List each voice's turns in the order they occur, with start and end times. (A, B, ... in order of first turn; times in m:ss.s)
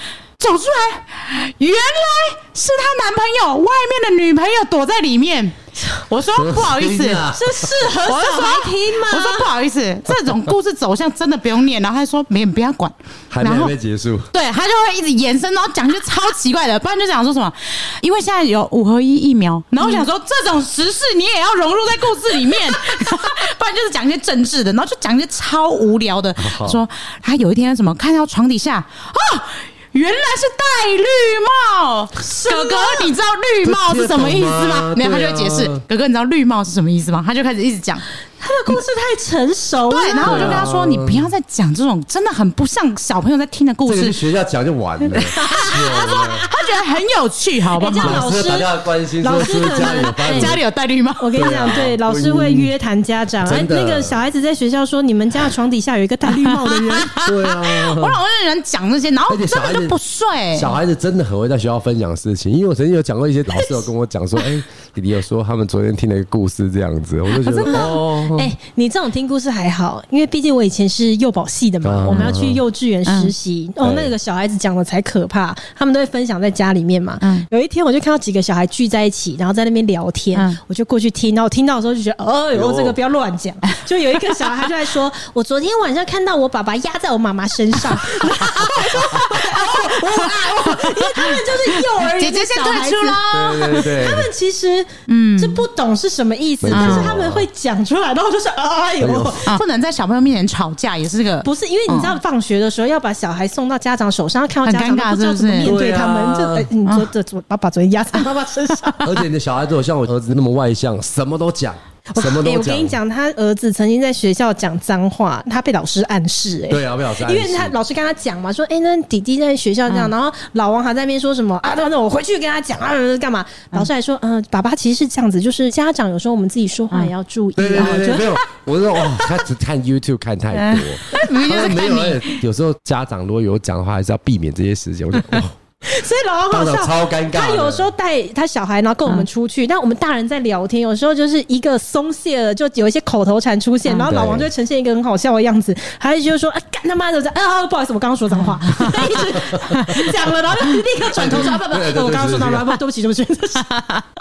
0:00.4-0:07.3 A
0:06.3-0:07.7 B
0:07.3-0:09.5 C
0:08.0-0:13.7 A
0:13.3-0:14.3 B
0:14.3-0:38.0 A
0:26.4-0:26.8 B
0:32.2-0:33.1 C
0:33.6-0:35.8 B
0:38.4-0:40.7 C
0:39.9-0:44.2 A
0:40.2-0:41.3 B
0:43.8-0:46.5 B
0:45.1-0:48.3 A
0:45.3-0:46.5 C
0:47.7-0:50.6 C
0:48.0-0:50.6 B
0:50.2-0:51.5 A
0:51.2-0:57.2 C
0:51.4-0:52.7 B
0:53.4-0:54.2 B
0:56.3-1:00.7 A
0:57.2-0:58.2 B
0:59.3-1:00.0 B
1:00.5-1:08.5 B
1:07.4-1:07.9 A
1:07.7-1:39.6 C
1:11.8-1:12.6 B
1:13.1-1:13.3 A
1:13.8-1:14.1 B
1:17.2-1:17.5 A
1:20.3-1:20.6 A
1:22.5-1:23.0 B
1:29.0-1:29.2 B
1:29.6-1:33.9 A
1:33.3-1:34.3 B
1:35.1-1:35.6 A
1:36.6-1:37.4 B
1:36.7-1:37.1 A
1:39.0-1:39.4 B
1:39.5-1:42.2 A
1:41.4-1:49.2 C
1:44.6-1:45.7 A
1:45.6-1:46.7 B
1:49.0-1:53.0 B
1:52.1-2:08.4 C
1:56.7-1:57.7 B
2:07.6-2:15.6 B
2:07.8-2:08.2 A
2:10.5-2:12.4 A
2:15.8-2:33.9 C
2:16.5-2:17.9 B
2:24.1-2:24.5 B
2:28.4-2:29.0 A
2:29.4-2:30.0 B
2:31.1-2:32.7 B